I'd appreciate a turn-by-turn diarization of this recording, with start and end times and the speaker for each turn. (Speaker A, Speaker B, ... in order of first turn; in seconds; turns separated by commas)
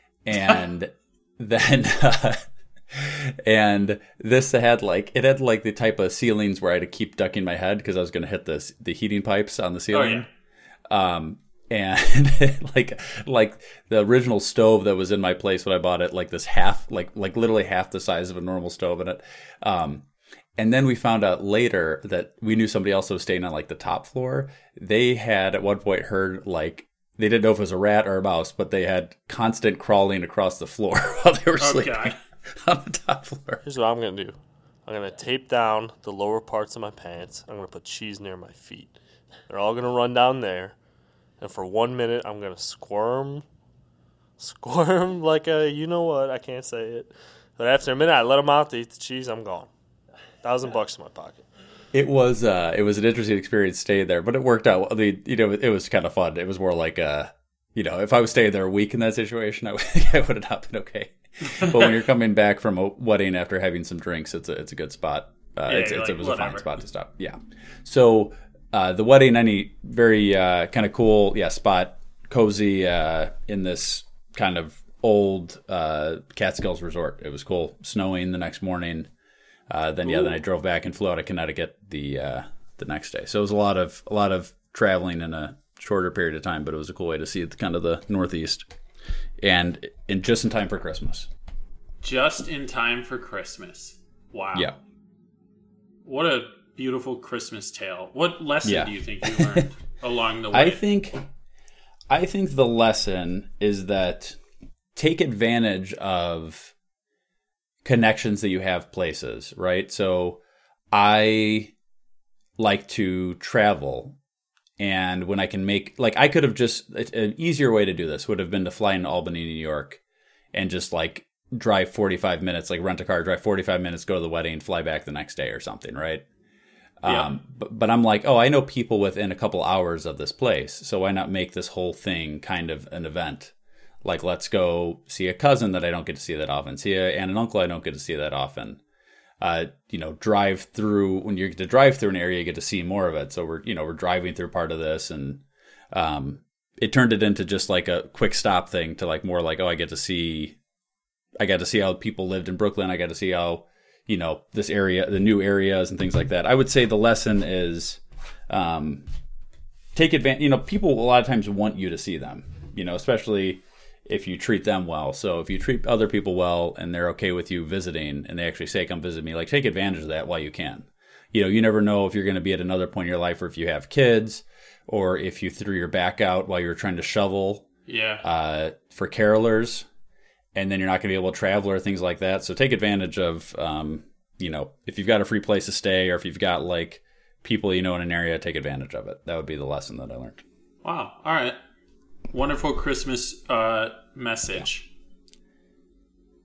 Speaker A: 0.2-10.3, Speaker B: 9.9-10.2, Speaker A: 10.9-20.0, Speaker A: 20.6-33.6, Speaker B: 31.6-32.1, Speaker C: 33.6-39.0, Speaker C: 39.5-40.8, Speaker C: 41.4-43.4, Speaker C: 44.4-49.7, Speaker C: 50.4-51.4, Speaker A: 51.9-79.1, Speaker B: 61.4-61.9, Speaker B: 65.7-66.7, Speaker A: 79.7-88.7, Speaker B: 80.0-80.4, Speaker A: 89.4-91.3, Speaker B: 92.0-94.7, Speaker B: 96.0-100.8, Speaker A: 98.6-99.7, Speaker A: 100.5-101.2, Speaker A: 102.1-104.4, Speaker A: 104.9-106.7, Speaker A: 107.8-110.4, Speaker A: 110.9-111.7, Speaker A: 112.6-114.2, Speaker A: 114.8-120.0, Speaker A: 120.5-126.2, Speaker A: 127.0-133.5, Speaker B: 127.0-127.3, Speaker A: 134.0-138.8, Speaker A: 139.4-145.4, Speaker A: 145.9-150.6, Speaker A: 151.4-159.0, Speaker A: 159.9-177.7, Speaker B: 177.9-178.2, Speaker A: 178.2-179.8, Speaker A: 180.5-190.4, Speaker B: 190.8-191.6, Speaker B: 192.3-194.9